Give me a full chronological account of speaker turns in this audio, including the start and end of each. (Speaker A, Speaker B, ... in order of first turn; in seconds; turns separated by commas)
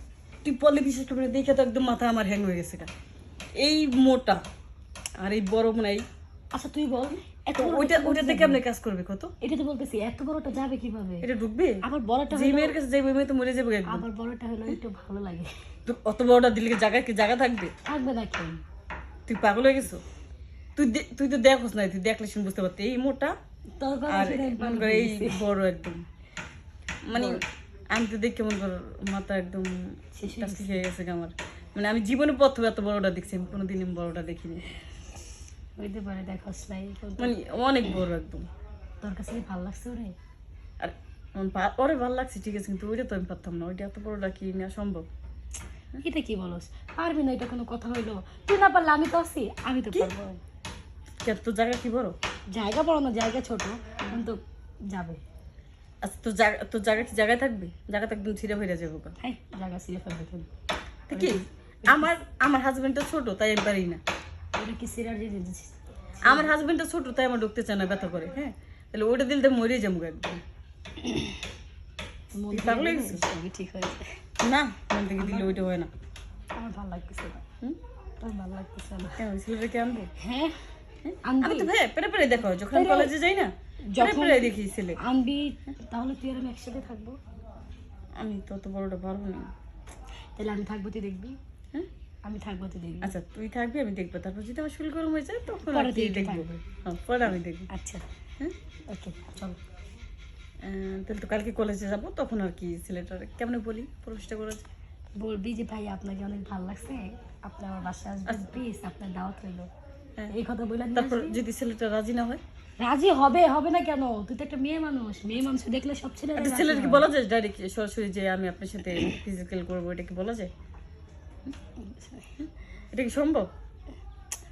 Speaker A: 0.4-2.9, Speaker A: 3.6-4.4, Speaker A: 5.2-6.0, Speaker B: 6.5-8.6, Speaker A: 7.5-9.3, Speaker B: 9.4-11.2, Speaker A: 11.2-14.0, Speaker B: 11.8-12.8, Speaker B: 13.9-15.5, Speaker A: 15.8-17.7, Speaker B: 17.9-18.6, Speaker A: 19.3-20.0, Speaker A: 20.8-23.3, Speaker B: 23.8-25.4, Speaker A: 24.1-26.0, Speaker A: 27.1-27.4, Speaker B: 27.1-27.4, Speaker A: 27.9-34.6, Speaker B: 30.1-30.8, Speaker B: 35.8-37.3, Speaker A: 37.2-38.5, Speaker B: 39.0-40.1, Speaker A: 40.8-45.0, Speaker B: 46.0-50.4, Speaker A: 51.2-52.1, Speaker B: 52.5-55.2, Speaker A: 56.0-59.1, Speaker B: 59.2-60.5, Speaker B: 61.1-62.1, Speaker A: 61.1-64.0, Speaker B: 64.5-66.5, Speaker A: 66.2-70.4, Speaker B: 71.0-71.4, Speaker B: 72.4-74.0, Speaker A: 72.5-73.2, Speaker A: 74.4-75.9, Speaker B: 75.2-75.6, Speaker B: 76.6-77.4, Speaker B: 78.2-79.2, Speaker A: 79.2-80.1, Speaker B: 80.2-80.6, Speaker A: 81.0-85.0, Speaker B: 81.3-81.7, Speaker B: 82.7-83.1, Speaker B: 83.9-87.2, Speaker A: 88.2-89.5, Speaker B: 90.4-91.4, Speaker B: 92.2-93.1, Speaker A: 93.0-97.7, Speaker B: 95.6-96.6, Speaker B: 97.7-98.0, Speaker B: 98.9-99.6, Speaker A: 100.6-104.6, Speaker B: 105.2-109.7, Speaker B: 110.3-111.4, Speaker A: 110.9-112.4, Speaker B: 112.8-117.1, Speaker A: 116.3-120.5, Speaker B: 121.8-122.3, Speaker A: 122.9-123.5